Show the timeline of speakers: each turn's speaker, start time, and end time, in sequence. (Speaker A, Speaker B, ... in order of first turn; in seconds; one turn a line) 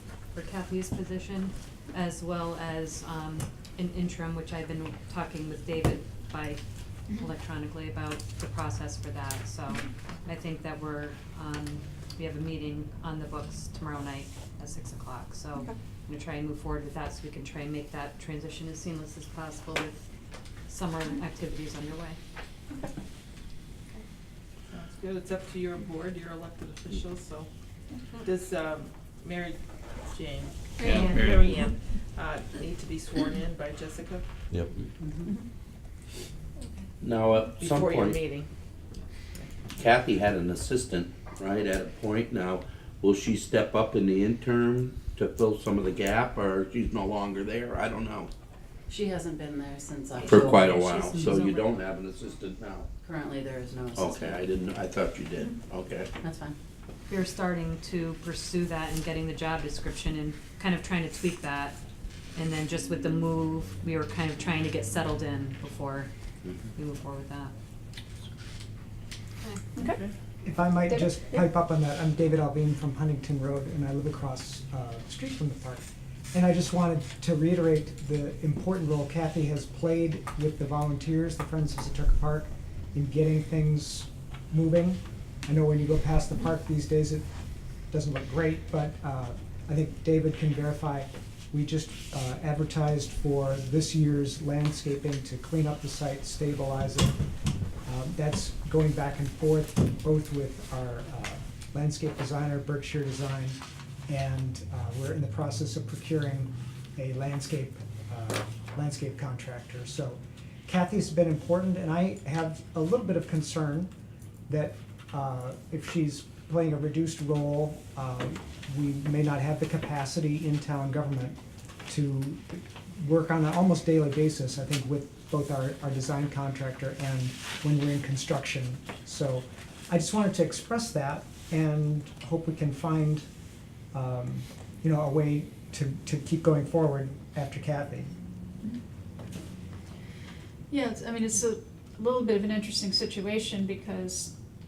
Speaker A: 0.3-20.1
Speaker A: 20.7-22.2
Speaker B: 24.7-27.5
Speaker B: 28.2-34.2
Speaker C: 37.0-38.2
Speaker B: 37.6-39.5
Speaker C: 39.8-48.3
Speaker D: 48.9-50.3
Speaker A: 50.1-51.7
Speaker C: 50.3-52.9
Speaker D: 53.0-54.2
Speaker C: 54.0-56.1
Speaker D: 56.2-56.5
Speaker A: 57.1-61.8
Speaker A: 62.3-66.1
Speaker A: 66.8-67.5
Speaker A: 69.4-69.7
Speaker E: 69.8-70.0
Speaker B: 69.8-70.1
Speaker F: 70.4-87.2
Speaker E: 70.9-71.4
Speaker F: 87.9-97.2
Speaker F: 97.8-113.9
Speaker F: 114.5-133.2
Speaker F: 133.9-138.1
Speaker E: 140.7-144.3